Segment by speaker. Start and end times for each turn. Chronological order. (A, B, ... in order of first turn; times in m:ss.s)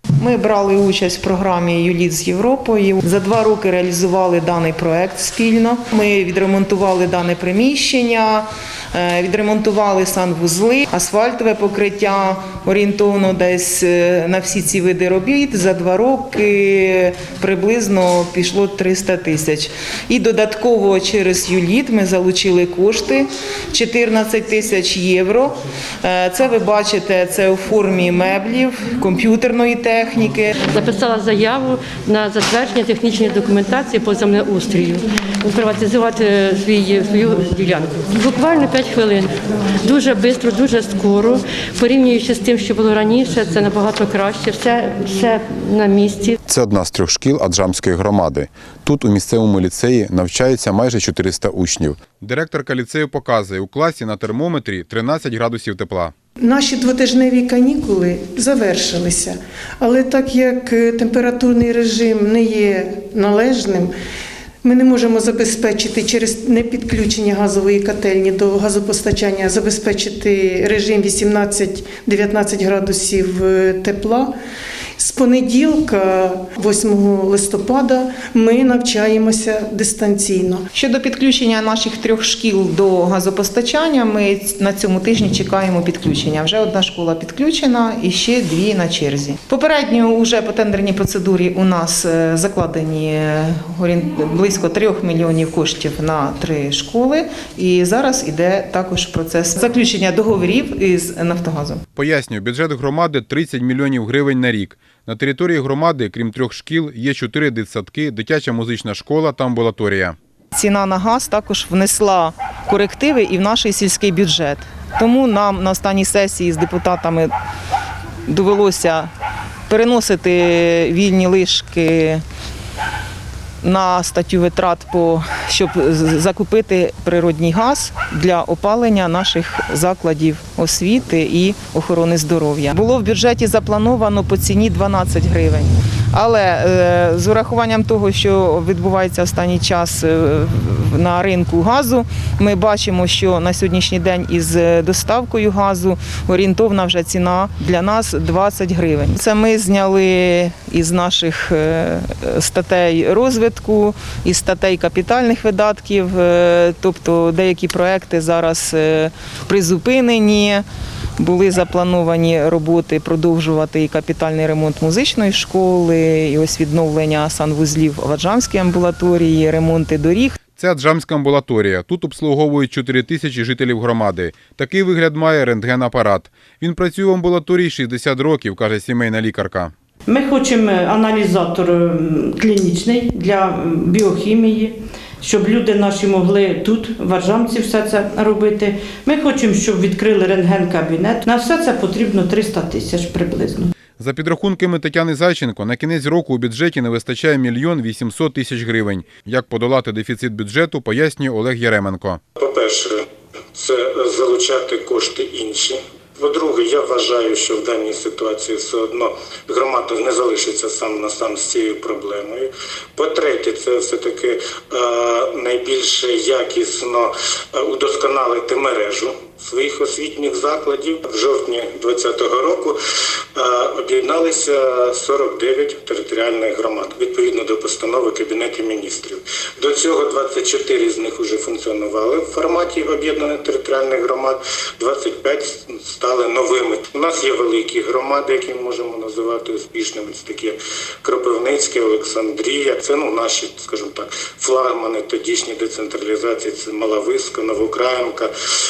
0:00.2-0:30.5 A
0:30.7-0:46.4 B
0:46.4-0:56.1 C
0:56.4-1:03.9 D
1:04.6-1:14.3 D
1:15.0-1:20.6 D
1:20.8-1:41.8 A
1:42.0-1:50.2 C
1:50.5-1:57.3 A
1:58.3-1:59.1 A
1:59.7-2:02.2 A
2:03.6-2:40.6 A
2:41.2-2:50.4 A
2:50.6-2:59.7 C
3:00.1-3:13.7 E
3:14.0-3:22.2 C
3:22.4-3:23.0 F
3:23.5-3:42.8 F
3:43.3-4:08.3 F